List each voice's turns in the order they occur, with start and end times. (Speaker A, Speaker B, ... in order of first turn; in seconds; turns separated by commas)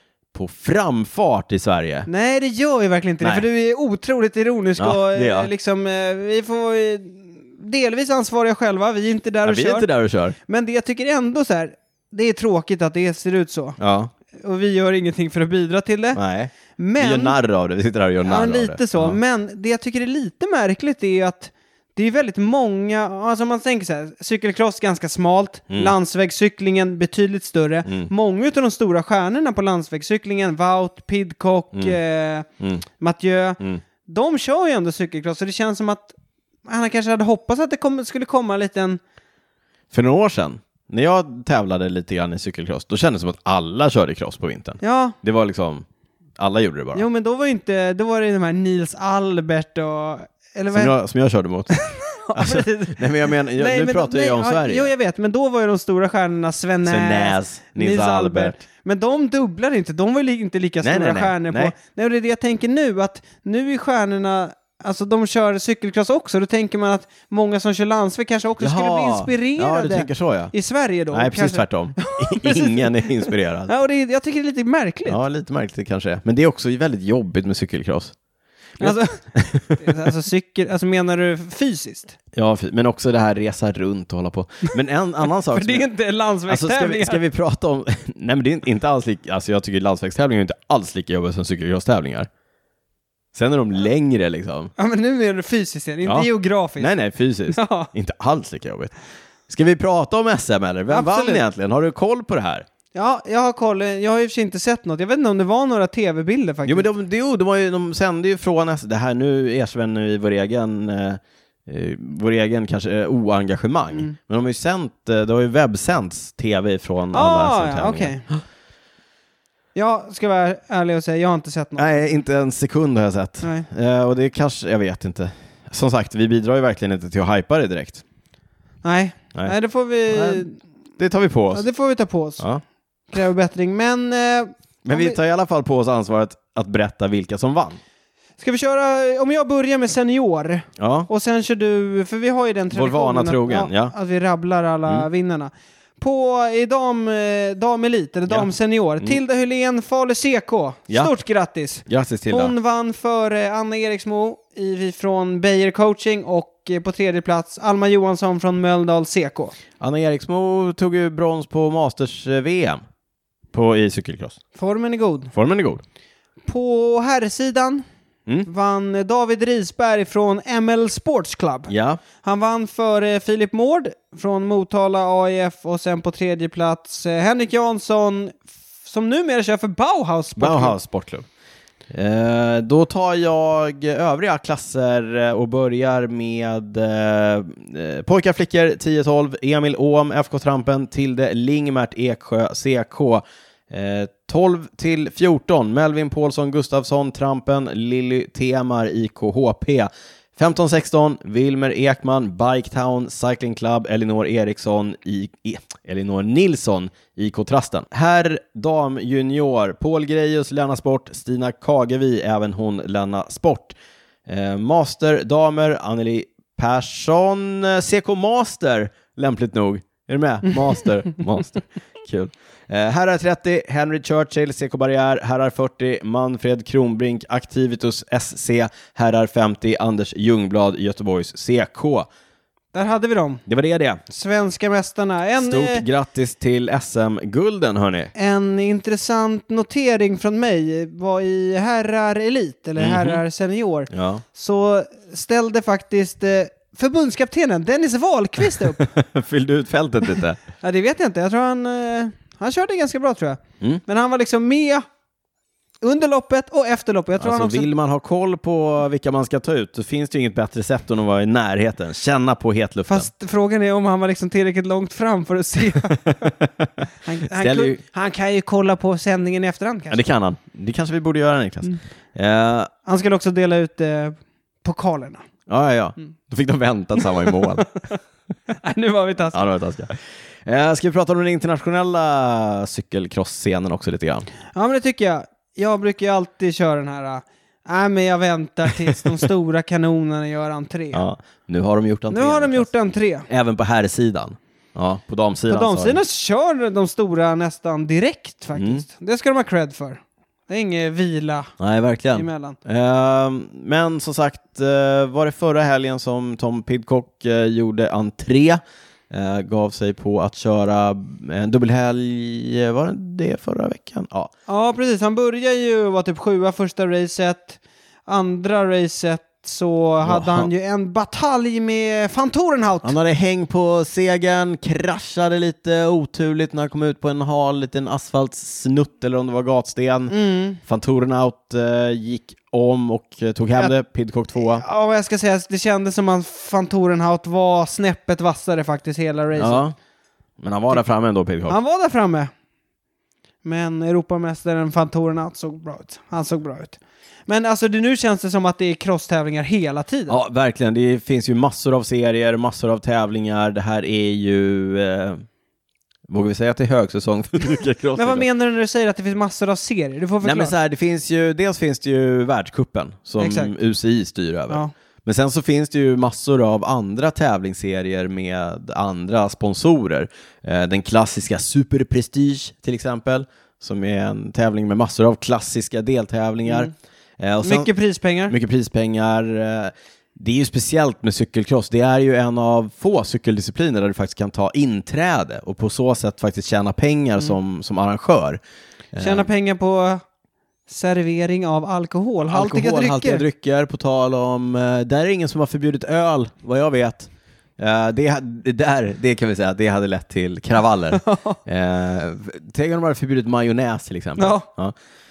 Speaker A: 0.3-2.1, Speaker B: 2.1-9.9, Speaker A: 4.8-5.5, Speaker A: 9.4-10.3, Speaker B: 10.4-13.8, Speaker A: 13.8-14.1, Speaker B: 14.3-16.2, Speaker A: 16.1-19.2, Speaker B: 16.8-17.3, Speaker B: 18.2-32.5, Speaker A: 32.6-32.8, Speaker B: 33.0-36.1, Speaker B: 36.6-39.0, Speaker A: 39.9-45.9, Speaker B: 44.8-45.1, Speaker A: 46.4-47.0, Speaker B: 46.9-50.9, Speaker A: 50.7-51.8, Speaker B: 51.7-75.2, Speaker A: 52.3-54.9, Speaker A: 56.8-58.6, Speaker A: 60.8-61.7, Speaker A: 68.6-70.5, Speaker A: 71.1-73.7, Speaker A: 75.1-78.1, Speaker A: 78.8-79.9, Speaker B: 78.8-79.2, Speaker B: 79.8-82.2, Speaker A: 82.3-85.9, Speaker B: 85.5-87.2, Speaker A: 86.5-92.3, Speaker A: 93.3-94.7, Speaker B: 94.8-96.9, Speaker A: 96.8-98.9, Speaker B: 97.5-97.9, Speaker A: 99.5-102.6, Speaker B: 100.9-101.4, Speaker B: 102.9-106.9, Speaker A: 106.7-118.4, Speaker B: 117.1-118.2, Speaker B: 119.7-122.2, Speaker A: 121.8-128.0, Speaker B: 123.4-123.7, Speaker B: 128.8-130.6, Speaker A: 130.1-130.4, Speaker A: 131.0-131.6, Speaker B: 131.5-132.4, Speaker B: 133.1-135.2, Speaker A: 134.8-137.8, Speaker B: 138.4-159.6, Speaker A: 140.8-141.1, Speaker A: 142.7-143.9, Speaker A: 151.8-152.5, Speaker A: 159.8-162.8, Speaker A: 163.5-164.4, Speaker B: 164.5-165.3, Speaker A: 165.3-165.8, Speaker B: 166.4-167.8, Speaker B: 168.4-180.7, Speaker A: 171.7-172.0, Speaker A: 180.4-181.3, Speaker A: 181.9-213.7, Speaker A: 214.2-232.1, Speaker B: 232.7-233.4, Speaker A: 233.4-234.0, Speaker B: 234.1-235.8, Speaker A: 235.4-238.1, Speaker B: 238.1-248.8, Speaker A: 242.8-243.2, Speaker A: 243.9-244.2, Speaker A: 248.6-250.4, Speaker B: 250.6-254.8, Speaker B: 255.8-257.7, Speaker A: 257.2-263.1, Speaker B: 262.9-266.0, Speaker A: 265.9-266.7, Speaker B: 267.0-270.0, Speaker A: 267.3-267.8, Speaker A: 269.9-272.7, Speaker B: 272.9-275.2, Speaker A: 275.5-277.7, Speaker B: 277.0-277.4, Speaker B: 278.5-279.4, Speaker A: 279.3-284.3, Speaker B: 284.5-291.0, Speaker A: 290.9-292.7, Speaker B: 292.1-293.3, Speaker A: 293.3-296.0, Speaker B: 295.5-301.5, Speaker A: 298.6-298.8, Speaker A: 301.6-314.3, Speaker B: 302.1-302.6, Speaker B: 314.5-322.9, Speaker A: 320.0-320.5, Speaker A: 322.8-334.6, Speaker B: 330.1-330.6, Speaker B: 334.4-339.6, Speaker A: 339.4-339.7, Speaker A: 340.4-341.6, Speaker B: 341.5-342.3, Speaker B: 343.4-350.2, Speaker A: 350.1-355.2, Speaker A: 356.1-358.2, Speaker B: 357.9-360.5, Speaker A: 360.2-377.7, Speaker B: 363.2-363.5, Speaker B: 377.4-378.3, Speaker A: 378.3-388.4, Speaker A: 388.9-389.3, Speaker B: 389.0-390.0, Speaker B: 390.7-393.2, Speaker A: 392.3-404.7, Speaker B: 400.9-401.4, Speaker B: 404.2-404.5